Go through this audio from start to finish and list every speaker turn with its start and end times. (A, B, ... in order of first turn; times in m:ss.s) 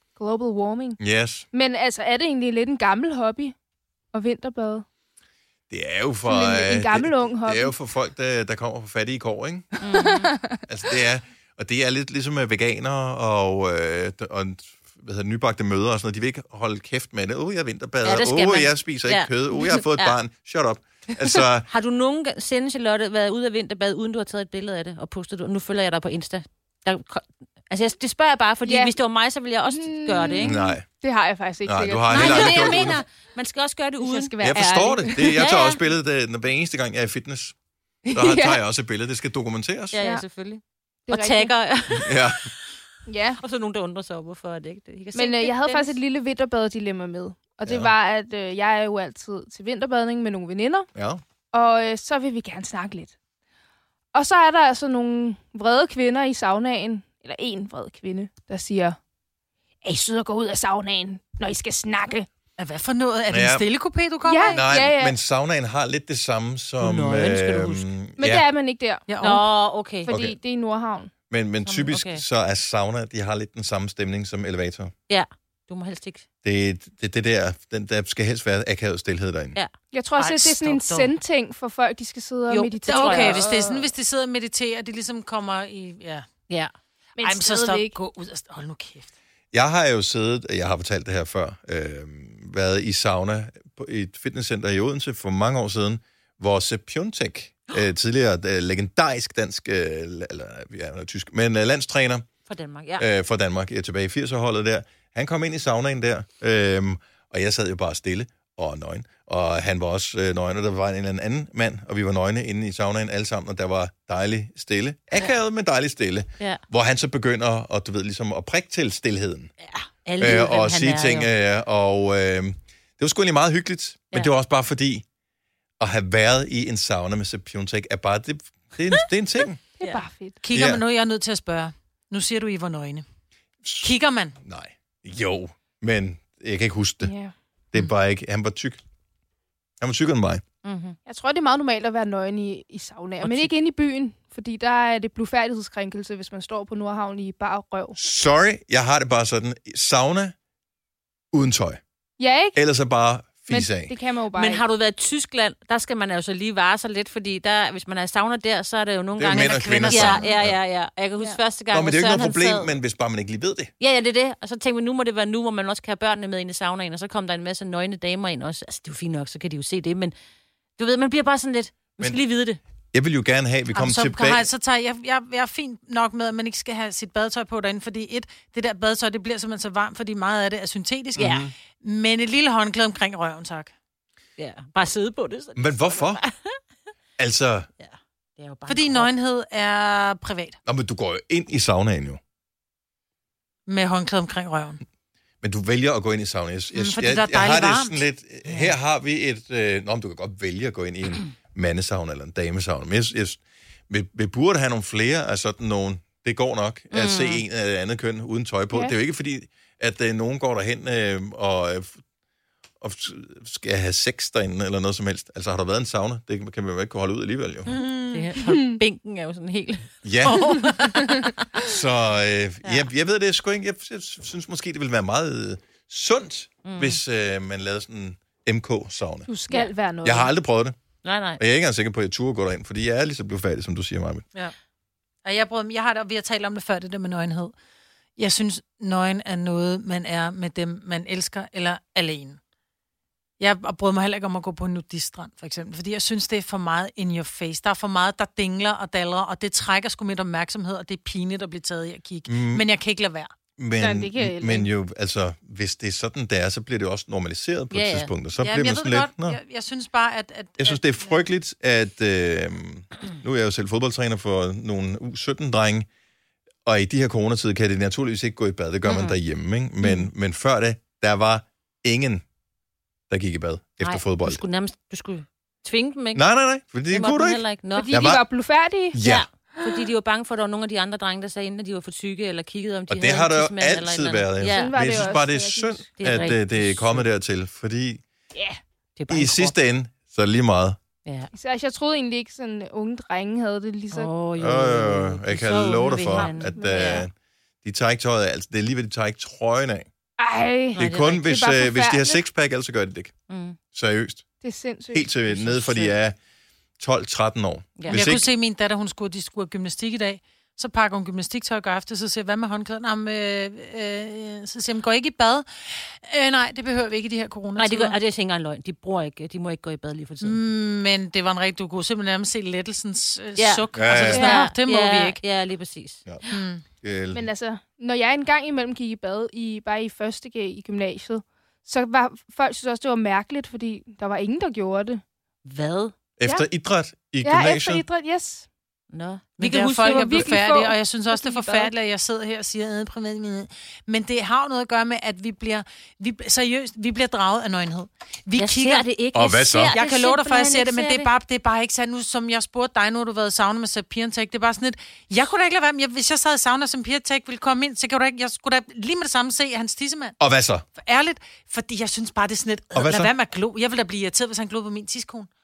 0:00.2-0:01.0 A
0:01.0-0:01.4 B
0:01.5-0:03.6 A
0:04.1-0:04.8 A
0:05.7-0:09.7 B
0:06.2-0:07.7 A
0:09.8-0:10.3 C
0:09.9-0:10.6 A
0:10.7-0:21.7 B
0:18.0-0:20.2 C
0:21.3-0:30.6 C
0:28.6-0:28.9 A
0:29.7-0:33.0 A
0:30.4-0:30.8 B
0:31.6-0:33.0 B
0:32.1-0:34.3 C
0:34.0-0:35.4 A
0:34.4-0:37.6 B
0:35.4-0:35.8 C
0:38.0-0:38.6 A
0:38.1-0:40.0 B
0:39.9-0:42.6 C
0:40.0-0:40.2 A
0:41.1-0:41.5 A
0:41.9-0:42.5 B
0:43.1-0:43.4 A
0:43.4-0:46.0 C
0:45.2-0:50.9 A
0:47.7-0:47.9 B
0:51.0-0:51.2 B
0:51.5-0:53.1 A
0:54.1-0:59.0 A
0:59.8-1:02.3 A
1:02.6-1:04.6 D
1:03.3-1:03.7 B
1:04.3-1:05.2 A
1:04.5-1:08.5 B
1:06.8-1:07.9 C
1:08.2-1:09.1 A
1:09.1-1:09.4 D
1:09.2-1:10.1 C
1:10.0-1:11.1 A
1:10.1-1:10.4 B
1:11.3-1:14.9 B
1:11.7-1:12.2 C
1:15.1-1:16.2 C
1:16.4-1:19.6 B
1:19.9-1:23.9 A
1:20.2-1:21.2 D
1:22.5-1:23.6 C
1:22.9-1:26.3 D
1:27.2-1:28.0 A
1:27.2-1:29.1 D
1:29.5-1:42.3 B
1:42.5-1:43.0 C
1:43.0-1:59.5 B
1:59.7-2:01.3 C
2:00.2-2:05.0 B
2:05.8-2:09.6 B
2:09.8-2:10.4 A
2:10.4-2:13.0 D
2:10.5-2:10.8 B
2:13.6-2:17.1 B
2:13.8-2:14.4 D
2:17.0-2:17.3 A
2:17.7-2:18.8 B
2:19.8-2:20.4 B
2:20.6-2:21.0 C
2:21.1-2:28.0 A
2:28.0-2:30.4 B
2:31.3-2:31.8 B
2:32.2-2:32.6 A
2:32.6-2:33.9 B
2:33.5-2:34.6 A
2:34.3-2:42.7 C
2:39.2-2:40.6 B
2:39.3-2:40.3 D
2:41.7-2:43.7 B
2:43.8-2:50.1 C
2:50.8-2:52.6 C
2:52.9-2:54.5 B
2:53.7-3:03.7 D
3:01.2-3:01.5 B
3:04.4-3:06.6 C
3:05.6-3:06.2 B
3:07.2-3:07.7 B
3:07.8-3:09.1 C
3:08.7-3:10.6 D
3:10.7-3:12.2 B
3:13.7-3:14.8 D
3:15.4-3:32.0 B
3:16.8-3:18.0 D
3:26.9-3:27.4 C
3:32.8-3:37.8 B
3:37.7-3:38.2 D
3:38.1-3:40.8 C
3:38.5-3:38.8 A
3:40.0-3:40.7 B
3:40.2-3:41.1 D
3:41.6-3:49.3 B
3:46.6-3:47.0 C
3:49.3-3:50.3 A
3:50.0-3:50.8 B
3:51.0-3:51.4 C
3:51.4-3:54.2 B
3:55.2-3:57.5 D
3:58.2-4:02.4 D
4:03.4-4:13.3 D
4:12.3-4:12.7 B
4:13.6-4:19.4 B
4:13.8-4:14.7 A
4:17.7-4:18.1 C
4:18.4-4:21.2 D
4:20.6-4:25.9 B
4:26.6-4:32.2 B
4:28.8-4:29.2 C
4:33.1-4:34.4 B
4:33.8-4:36.2 C
4:36.1-4:38.2 B
4:36.9-4:38.0 C
4:37.8-4:39.0 A
4:38.9-4:39.3 B
4:39.0-4:45.2 C
4:42.9-4:48.0 B
4:44.5-4:45.9 A
4:46.0-4:47.0 C
4:49.0-4:49.5 C
4:49.1-4:50.8 B
4:51.0-4:51.3 C
4:51.3-4:54.1 A
4:53.9-4:57.1 C
4:54.4-4:57.1 B
4:56.1-4:57.0 A
4:57.6-4:59.9 B
5:00.2-5:02.2 A
5:00.8-5:03.1 B
5:00.8-5:01.2 C
5:03.3-5:03.6 C
5:03.7-5:04.2 B
5:04.4-5:06.0 A
5:04.9-5:06.2 B
5:06.8-5:08.3 B
5:07.8-5:08.2 C
5:07.9-5:18.0 D
5:17.6-5:20.4 C
5:20.2-5:25.2 D
5:23.4-5:26.4 C
5:23.7-5:24.3 B
5:24.1-5:24.4 A
5:26.3-5:26.6 D
5:26.8-5:27.3 B
5:27.1-5:35.0 A
5:35.4-5:35.9 C
5:36.2-5:37.8 B
5:37.2-5:38.5 A
5:38.9-5:40.7 C
5:39.4-5:48.8 D
5:39.8-5:41.7 A
5:48.4-5:51.1 C
5:49.1-5:49.7 B
5:49.7-6:00.2 D
6:00.2-6:00.6 B
6:00.8-6:05.3 D
6:02.7-6:03.1 B